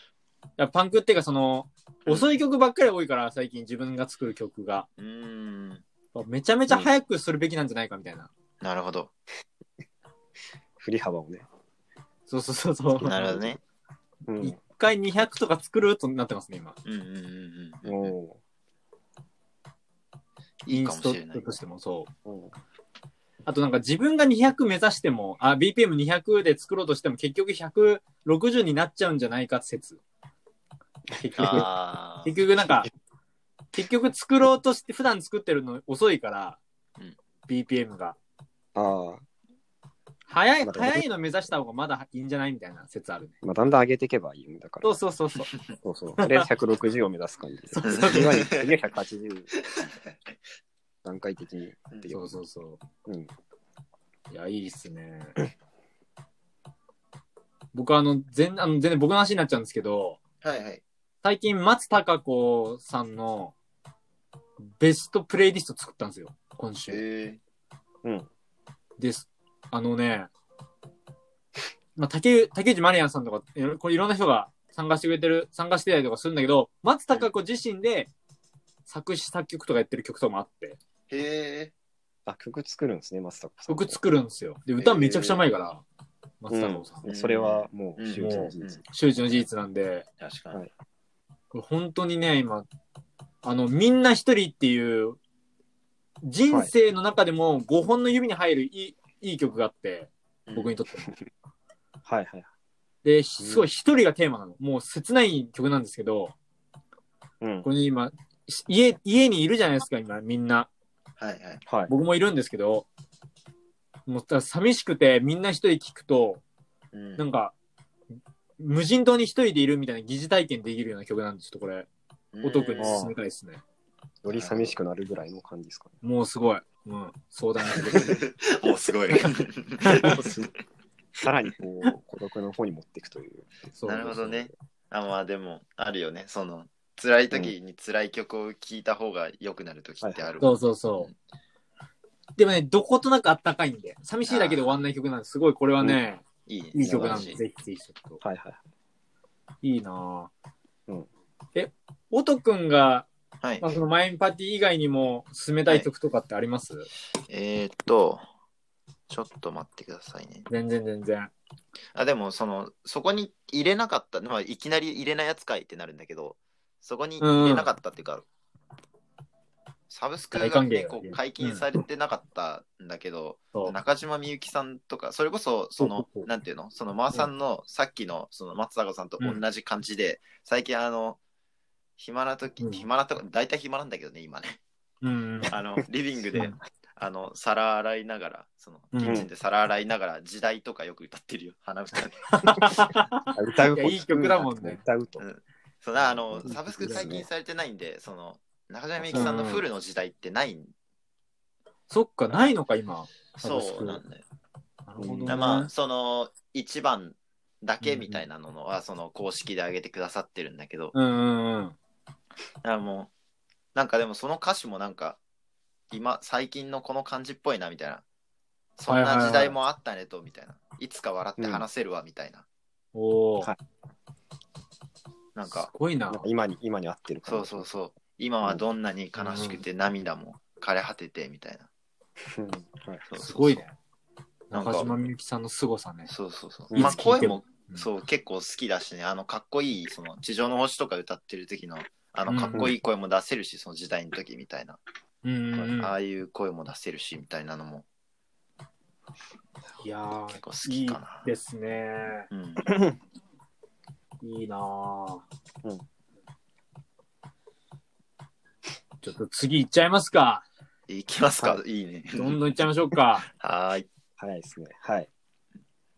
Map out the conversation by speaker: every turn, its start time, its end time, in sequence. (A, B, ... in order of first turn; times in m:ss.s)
0:00.6-0:04.9 A
0:05.0-0:05.8 B
0:06.2-0:08.3 A
0:08.6-0:09.1 B
0:10.8-0:11.5 C
0:12.3-0:13.5 A
0:13.0-0:13.6 B
0:13.1-0:13.5 C
0:14.3-0:14.6 C
0:14.4-0:16.8 A
0:16.8-0:18.1 B
0:17.8-0:18.4 C
0:20.6-0:21.6 B
0:20.7-0:22.1 A
0:22.2-0:22.5 C
0:23.5-0:30.0 A
0:31.1-0:31.7 A
0:31.4-0:32.4 B
0:32.2-0:32.9 A
0:33.7-0:36.6 A
0:37.5-0:38.2 A
0:38.8-0:39.2 C
0:40.3-0:43.4 A
0:40.6-0:41.0 C
0:43.4-0:45.0 C
0:44.8-0:45.5 A
0:45.8-0:49.5 C
0:46.2-0:46.4 A
0:47.7-0:48.4 A
0:47.9-0:48.7 B
0:49.8-0:50.1 B
0:51.0-0:52.4 C
0:52.1-0:52.8 A
0:54.3-0:55.4 A
0:57.7-1:00.2 A
1:00.4-1:00.8 B
1:01.2-1:03.6 A
1:04.8-1:07.0 A
1:06.9-1:07.4 B
1:09.0-1:10.3 A
1:12.0-1:18.1 A
1:18.9-1:20.8 A
1:21.1-1:21.7 B
1:22.3-1:24.0 C
1:23.7-1:25.8 A
1:24.8-1:25.5 C
1:26.4-1:27.0 A
1:26.5-1:29.4 C
1:27.0-1:28.8 B
1:28.2-1:30.1 A
1:30.2-1:30.6 B
1:31.5-1:32.7 A
1:33.4-1:35.2 A
1:36.2-1:41.1 A
1:40.5-1:40.7 B
1:42.1-1:42.5 C
1:43.0-1:46.4 A
1:43.4-1:43.7 C
1:47.4-1:47.7 C
1:47.6-1:50.7 A
1:51.2-1:51.6 B
1:51.7-1:52.0 C
1:51.9-1:52.9 A
1:54.1-1:56.4 A
1:56.9-1:57.3 B
1:57.2-1:57.5 A
1:58.6-2:01.9 A
2:02.3-2:03.0 B
2:02.4-2:03.6 A
2:02.8-2:03.2 C
2:04.2-2:06.0 C
2:04.3-2:04.8 B
2:06.0-2:08.2 A
2:07.9-2:10.4 B
2:09.9-2:10.2 A
2:10.0-2:10.5 C
2:11.2-2:14.5 C
2:13.8-2:14.4 A
2:13.8-2:21.2 B
2:20.0-2:20.3 C
2:20.4-2:21.1 A
2:22.4-2:28.2 A
2:24.3-2:24.7 B
2:26.5-2:27.4 B
2:26.8-2:27.4 C
2:28.2-2:28.6 C
2:29.6-2:30.3 A
2:31.6-2:33.1 A
2:33.6-2:36.9 A
2:37.3-2:38.2 B
2:39.1-2:40.5 B
2:40.5-2:41.3 A
2:42.0-2:48.3 B
2:47.2-2:47.7 A
2:49.9-3:01.2 B
2:50.3-2:51.7 A
2:55.8-2:56.3 A
3:02.0-3:04.6 B
3:02.6-3:02.9 A
3:05.0-3:05.6 A
3:05.5-3:12.6 B
3:06.3-3:06.6 C
3:08.9-3:09.3 A
3:12.3-3:14.8 A
3:13.3-3:15.2 C
3:15.2-3:20.7 B
3:16.3-3:17.3 C
3:16.4-3:17.2 A
3:19.0-3:19.4 C
3:19.1-3:19.6 A
3:21.9-3:24.0 A
3:22.3-3:22.6 B
3:23.4-3:24.2 B
3:24.9-3:25.7 A
3:25.0-3:25.7 C
3:25.3-3:31.0 B
3:27.8-3:28.2 A
3:30.9-3:31.8 A
3:32.6-3:33.1 B
3:33.8-3:35.2 B
3:35.9-3:38.0 B
3:38.8-3:42.4 B
3:38.9-3:39.6 A
3:41.4-3:41.7 C
3:42.9-3:43.5 A
3:45.4-3:45.7 B
3:45.5-3:46.2 A
3:46.1-3:47.8 C
3:47.2-3:51.7 B
3:49.2-3:49.6 A
3:52.3-3:53.0 C
3:53.1-3:53.6 B
3:53.2-3:53.8 A
3:54.5-3:56.1 A
3:54.5-3:54.9 B
3:56.1-4:04.8 B
3:56.7-3:57.1 C
3:56.8-3:57.9 A
4:02.3-4:02.7 A
4:05.2-4:06.0 A
4:05.8-4:07.9 B
4:09.8-4:12.3 A
4:10.4-4:11.3 B
4:12.3-4:12.7 B
4:12.6-4:13.0 C
4:14.2-4:15.2 A
4:19.0-4:20.4 A
4:20.9-4:22.4 B
4:22.2-4:23.3 A
4:23.3-4:23.9 B
4:24.2-4:25.1 C